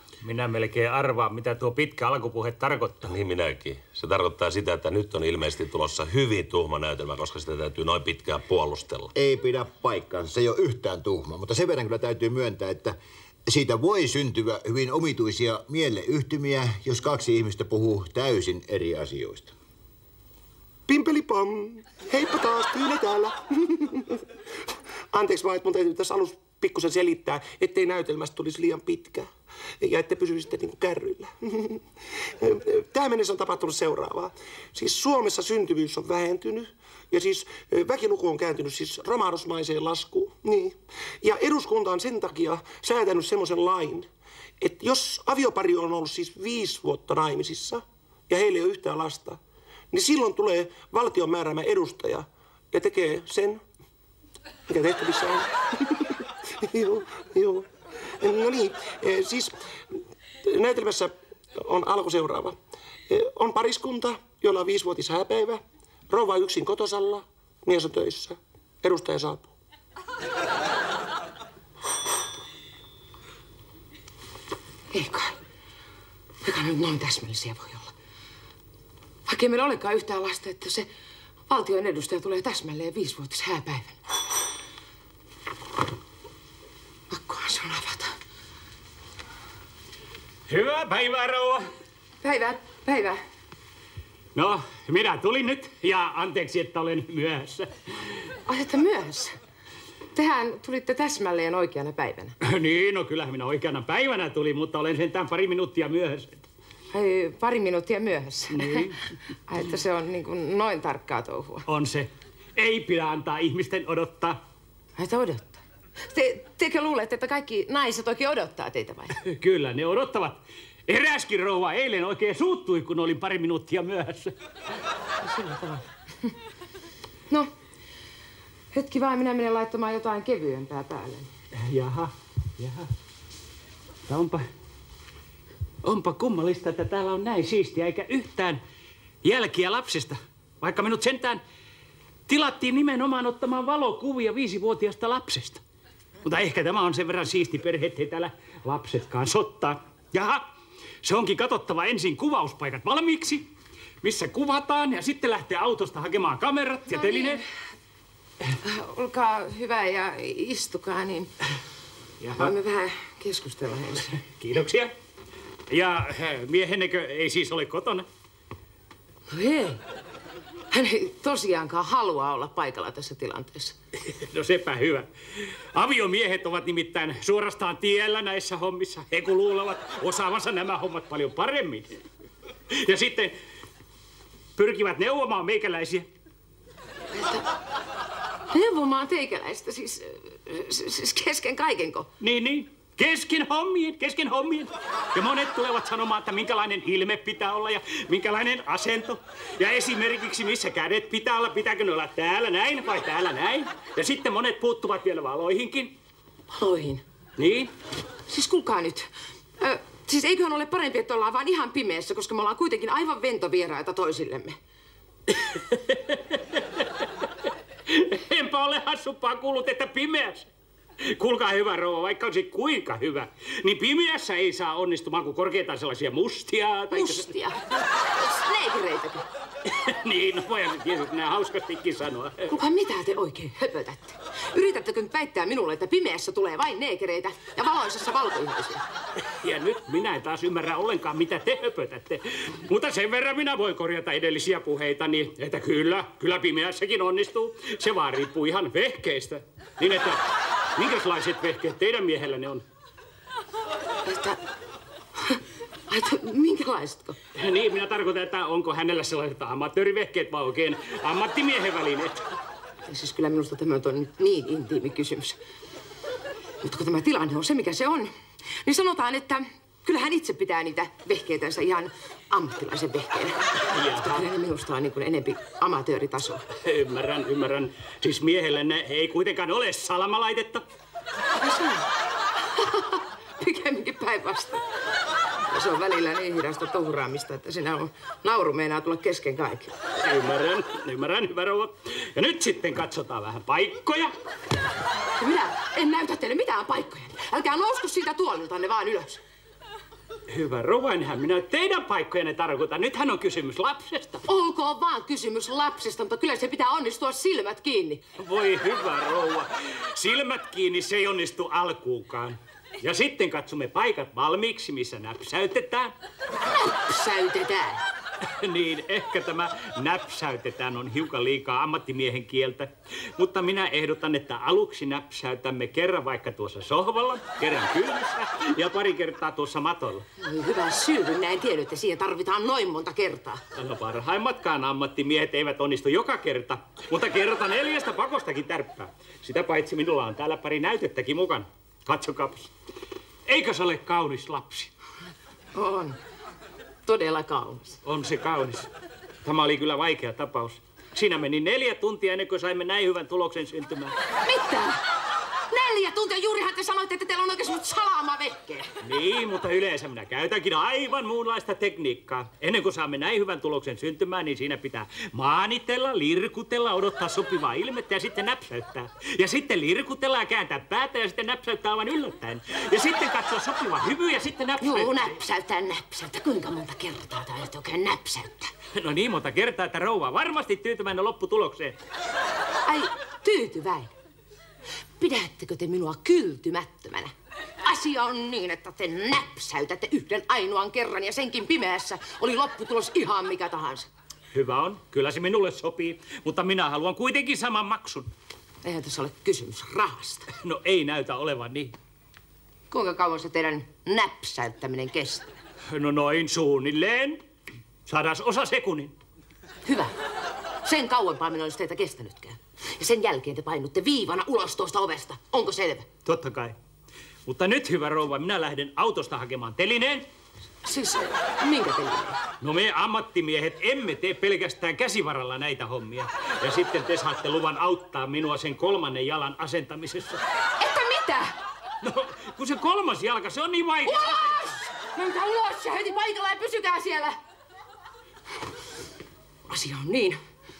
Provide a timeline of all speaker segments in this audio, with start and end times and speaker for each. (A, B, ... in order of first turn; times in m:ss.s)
0:00.2-0:03.1 A
0:03.0-0:09.1 B
0:09.1-0:13.0 C
0:13.5-0:19.5 C
0:20.9-0:24.2 D
0:25.1-0:29.3 D
0:29.8-0:31.8 D
0:32.4-0:44.1 D
0:44.6-0:49.4 D
0:49.9-0:53.6 D
0:54.7-0:57.7 D
0:58.2-0:59.6 D
1:00.4-1:02.6 D
1:03.1-1:09.5 D
1:14.9-1:15.4 E
1:16.4-1:17.9 E
1:19.3-1:20.9 E
1:21.5-1:24.0 E
1:27.1-1:28.2 E
1:30.5-1:31.6 A
1:32.2-1:33.2 E
1:34.4-1:37.7 A
1:38.5-1:39.4 E
1:40.2-1:42.4 E
1:42.4-1:46.4 A
1:46.9-1:48.9 E
1:48.5-1:49.0 A
1:49.5-1:51.7 E
1:51.7-1:54.4 A
1:55.0-1:59.2 E
1:59.2-2:04.3 A
2:05.2-2:06.3 E
2:08.7-2:11.3 E
2:11.6-2:12.9 A
2:14.1-2:14.5 A
2:15.8-2:18.6 A
2:19.2-2:21.4 A
2:22.3-2:25.6 A
2:26.2-2:30.4 A
2:31.0-2:33.5 A
2:34.0-2:37.4 A
2:36.9-2:37.4 E
2:38.6-2:41.3 E
2:42.2-2:42.5 A
2:42.4-2:44.2 E
2:44.2-2:44.9 A
2:45.7-2:48.1 A
2:49.3-2:49.8 E
2:50.7-2:53.8 E
2:54.1-2:55.1 A
2:55.8-3:01.9 A
3:02.7-3:03.4 A
3:04.6-3:06.1 A
3:07.1-3:07.5 E
3:08.5-3:12.1 E
3:12.2-3:25.9 A
3:26.5-3:27.0 E
3:27.4-3:27.7 A
3:28.3-3:29.1 E
3:29.6-3:34.6 E
3:35.3-3:37.3 A
3:37.9-3:40.5 A
3:41.0-3:47.3 A
3:46.9-3:49.2 E
3:49.7-3:52.5 A
3:52.5-3:58.8 E
3:59.3-4:10.2 A
4:10.8-4:12.6 A
4:14.0-4:14.4 E
4:15.2-4:17.2 E
4:17.4-4:22.3 A
4:22.8-4:25.4 E
4:26.6-4:28.1 E
4:28.6-4:36.5 E
4:33.7-4:34.3 A
4:36.6-4:40.6 A
4:41.4-4:41.9 E
4:42.5-4:44.6 E
4:45.5-4:49.7 E
4:50.0-4:54.1 A
4:55.2-4:59.2 E
5:00.3-5:04.2 A
5:04.2-5:08.0 E
5:08.2-5:15.9 A
5:16.4-5:17.8 E
5:18.3-5:30.0 A
5:30.2-5:33.4 E
5:33.5-5:42.5 A
5:43.3-5:44.7 A
5:45.5-5:46.0 E
5:46.8-5:47.8 E
5:47.8-5:48.7 A
5:49.2-5:54.0 A
5:54.2-5:54.8 E
5:55.5-5:58.7 E
5:58.8-6:15.2 A
6:14.6-6:18.5 E
6:18.8-6:21.8 A
6:22.6-6:23.9 E
6:25.0-6:33.9 E
6:34.3-6:38.1 A
6:38.6-6:40.3 E
6:40.3-6:41.7 A
6:42.7-6:45.3 E
6:45.7-6:47.2 A
6:47.9-6:49.0 A
6:49.6-6:49.9 E
6:50.6-6:55.9 E
6:56.0-6:56.6 A
6:57.3-7:00.1 A
7:00.6-7:02.2 E
7:02.4-7:10.2 A
7:10.6-7:11.4 E
7:11.8-7:14.6 A
7:13.9-7:17.2 E
7:19.5-7:20.2 E